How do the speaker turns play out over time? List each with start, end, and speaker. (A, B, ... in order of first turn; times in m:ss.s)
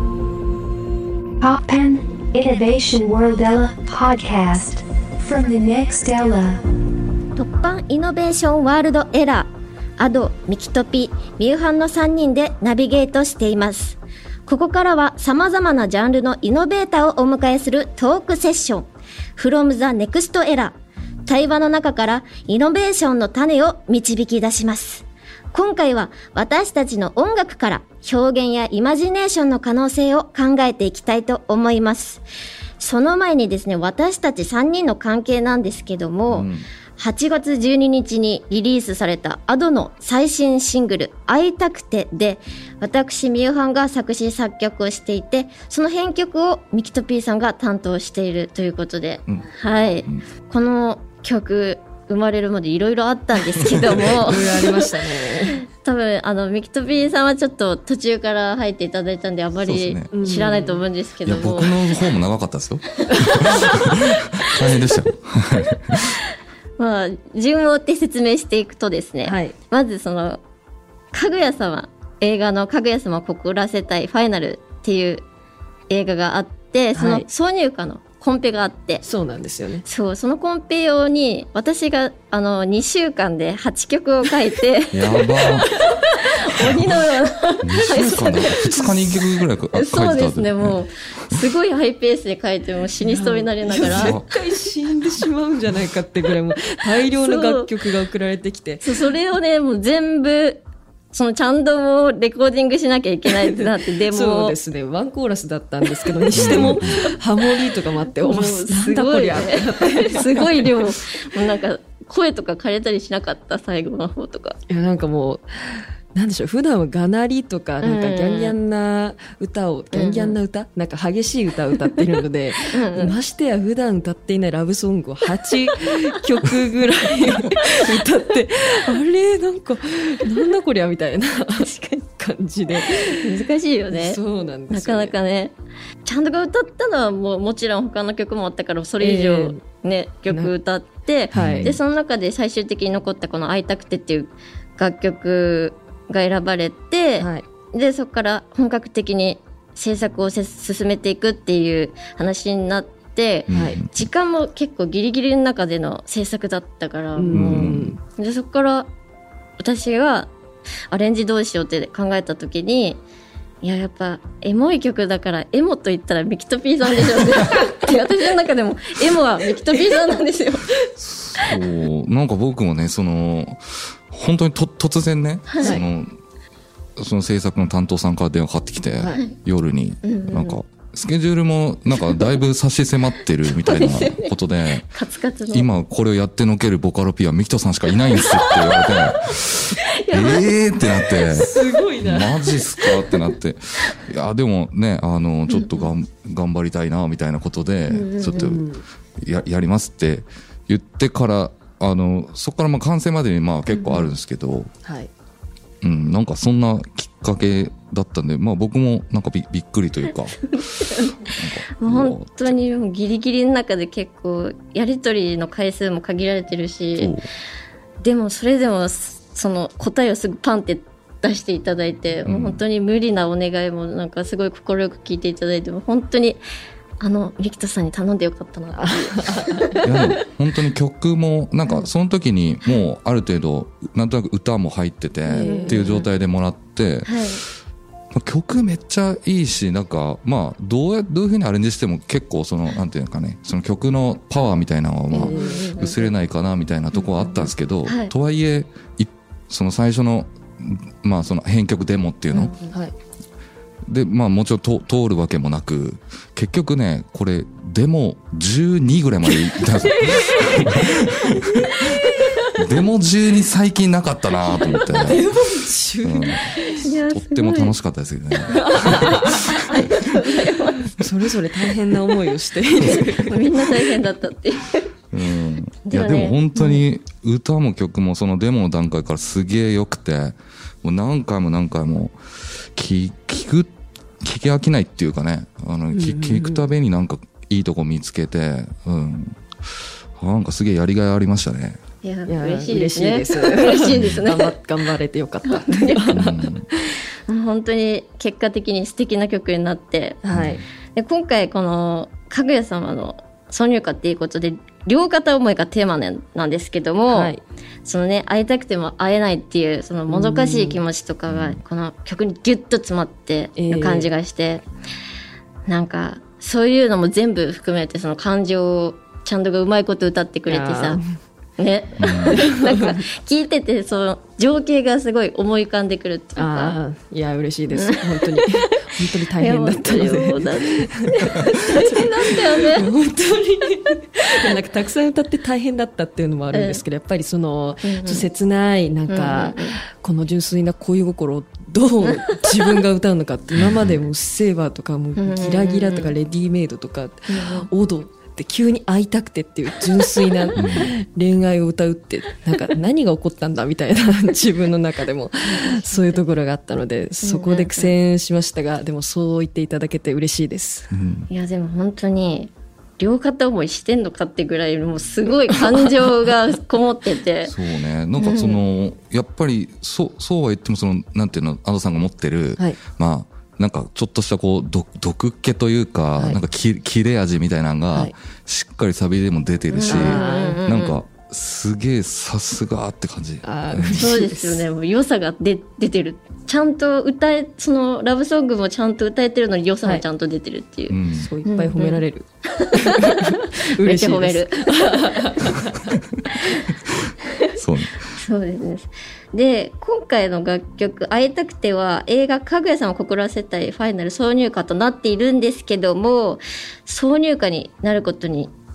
0:01.4-0:06.6 A
0:07.4-0:20.8 B
0:21.3-0:32.2 B
0:32.8-0:54.9 B
0:36.3-0:36.7 C
0:53.9-0:55.6 D
0:55.5-1:02.0 B
0:59.6-1:00.1 C
1:00.1-1:00.8 D
1:01.2-1:06.2 C
1:03.1-1:04.5 B
1:06.8-1:10.4 B
1:09.2-1:09.6 D
1:11.1-1:15.2 B
1:15.9-1:19.0 B
1:17.0-1:17.3 D
1:19.0-1:19.8 D
1:19.8-1:28.8 B
1:24.9-1:25.7 C
1:27.6-1:31.4 C
1:29.7-1:34.2 B
1:33.0-1:39.1 D
1:33.8-1:34.2 C
1:37.0-1:37.7 B
1:38.8-1:40.6 B
1:41.1-1:44.6 B
1:43.3-1:50.8 D
1:46.2-1:46.7 B
1:46.4-1:47.0 C
1:48.2-1:54.6 B
1:54.7-2:13.3 D
1:57.8-1:58.6 B
1:59.9-2:00.4 B
2:02.7-2:03.2 B
2:11.6-2:12.0 B
2:12.8-2:38.9 B
2:13.9-2:15.1 D
2:19.0-2:19.6 D
2:21.3-2:21.8 C
2:21.3-2:21.8 D
2:27.2-2:27.4 D
2:33.5-2:34.0 C
2:33.5-2:33.8 D
2:37.2-2:38.0 D
2:37.3-2:38.0 C
2:39.6-2:40.3 B
2:40.9-2:43.0 B
2:43.6-2:50.7 B
2:49.7-2:50.0 D
2:51.0-2:56.1 C
2:55.5-2:55.8 B
2:55.6-2:55.9 D
2:57.0-3:04.9 C
3:00.0-3:00.6 B
3:02.0-3:02.3 B
3:03.5-3:04.3 B
3:04.9-3:05.7 B
3:05.5-3:18.6 C
3:08.2-3:09.1 B
3:09.9-3:10.4 B
3:11.2-3:12.5 D
3:12.8-3:13.1 B
3:15.5-3:15.9 B
3:17.9-3:18.6 B
3:18.4-3:18.8 D
3:19.2-3:24.7 C
3:23.7-3:24.1 B
3:24.8-3:25.1 D
3:25.8-3:32.6 C
3:30.4-3:37.1 B
3:37.0-3:37.3 C
3:38.0-3:46.4 B
3:42.3-3:42.6 C
3:47.0-3:50.1 B
3:48.8-3:49.8 D
3:49.8-3:57.2 C
3:55.3-3:56.1 B
3:55.3-3:56.0 D
3:57.0-3:57.4 B
3:58.1-4:12.5 C
4:05.1-4:06.1 B
4:05.1-4:05.7 D
4:06.9-4:08.1 B
4:12.3-4:12.7 B
4:12.7-4:12.9 D
4:13.9-4:25.2 C
4:19.3-4:21.4 D
4:24.6-4:25.0 B
4:24.8-4:26.8 D
4:26.0-4:29.6 C
4:26.6-4:27.8 B
4:28.5-4:31.0 B
4:28.5-4:29.6 D
4:31.0-4:33.7 D
4:32.8-4:34.9 B
4:35.1-4:42.2 C
4:35.8-4:36.8 B
4:42.7-4:43.7 C
4:44.2-4:49.4 C
4:45.9-4:46.6 D
4:50.2-4:51.8 C
4:52.0-4:54.5 B
4:52.3-4:56.9 D
4:53.9-4:54.2 C
4:55.5-4:56.2 B
4:56.1-4:56.6 C
4:57.3-5:00.2 B
5:00.2-5:00.6 D
5:00.3-5:00.6 C
5:01.0-5:07.3 B
5:07.1-5:07.4 D
5:07.8-5:14.6 B
5:10.1-5:10.8 D
5:11.3-5:11.6 C
5:13.6-5:14.1 D
5:15.7-5:21.0 B
5:20.5-5:21.1 D
5:21.6-5:26.8 B
5:22.0-5:22.4 C
5:22.3-5:23.0 D
5:26.4-6:00.9 D
5:27.8-5:28.6 B
5:29.4-5:32.9 B
5:36.5-5:36.8 B
5:37.8-5:38.3 B
5:39.1-5:39.8 B
5:42.1-5:42.6 B
5:43.6-5:44.0 C
5:45.2-5:46.1 B
5:47.3-5:47.7 B
5:50.6-5:50.9 C
5:55.5-5:56.2 B
5:57.2-5:57.9 B
6:00.9-6:01.3 C
6:01.3-6:07.5 B
6:07.4-6:24.2 C
6:08.2-6:08.6 B
6:19.7-6:21.0 B
6:19.9-6:20.6 D
6:23.4-6:24.6 D
6:24.0-6:32.0 B
6:30.9-6:31.3 C
6:31.2-6:36.0 D
6:32.5-6:35.5 B
6:36.4-6:36.6 B
6:37.0-6:38.1 C
6:38.1-6:48.5 B